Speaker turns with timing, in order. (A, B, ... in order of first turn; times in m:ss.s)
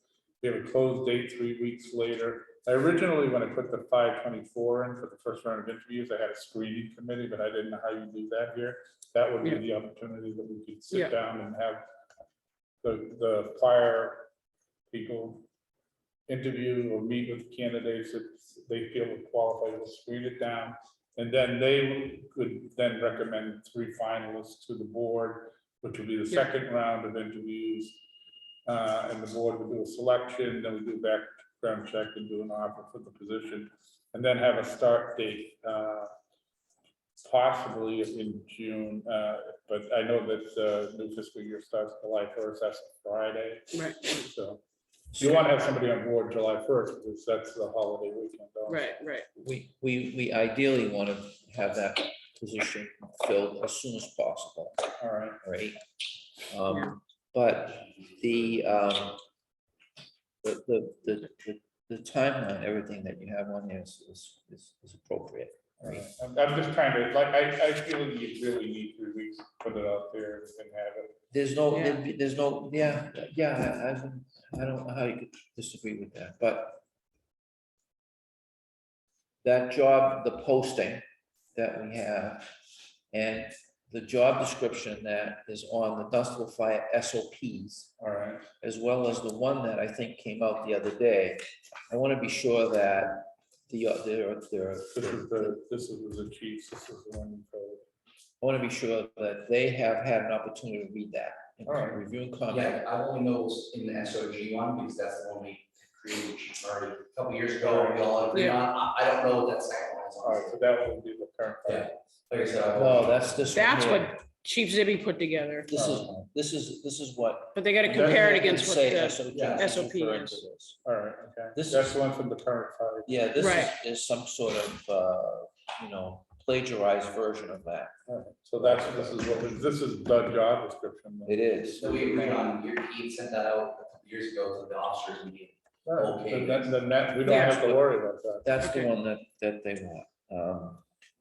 0:00.4-0:11.8 A
0:12.8-0:14.3 A
0:14.9-0:15.4 A
0:16.3-0:28.0 A
0:28.6-0:36.1 A
0:37.2-0:44.6 A
0:43.7-0:44.3 B
0:45.1-0:48.9 A
0:48.7-0:49.3 B
0:49.4-0:54.8 C
0:55.0-0:55.4 A
0:55.4-0:55.8 C
0:56.5-0:59.2 C
1:00.4-1:06.1 C
1:05.8-1:11.1 A
1:11.3-1:16.8 C
1:11.7-1:12.0 B
1:19.4-1:21.0 C
1:21.5-1:22.5 C
1:23.1-1:27.9 C
1:28.0-1:28.5 A
1:28.6-1:35.6 C
1:34.9-1:37.8 A
1:38.4-1:42.8 C
1:41.6-1:42.0 A
1:42.5-1:50.6 D
1:47.6-1:48.2 A
1:48.3-1:48.6 B
1:50.2-1:51.9 A
1:51.6-1:53.3 D
1:52.8-1:54.2 C
1:53.5-1:55.7 B
1:55.7-2:00.8 C
1:55.7-1:56.3 A
1:57.5-2:00.4 B
1:57.8-1:58.5 A
1:59.3-1:59.7 D
2:00.8-2:03.1 A
2:01.5-2:02.0 C
2:03.0-2:07.9 C
2:03.4-2:03.7 B
2:08.1-2:12.5 A
2:08.8-2:09.2 C
2:11.2-2:12.1 C
2:11.8-2:16.7 D
2:15.8-2:18.5 A
2:17.2-2:17.9 C
2:18.4-2:20.8 C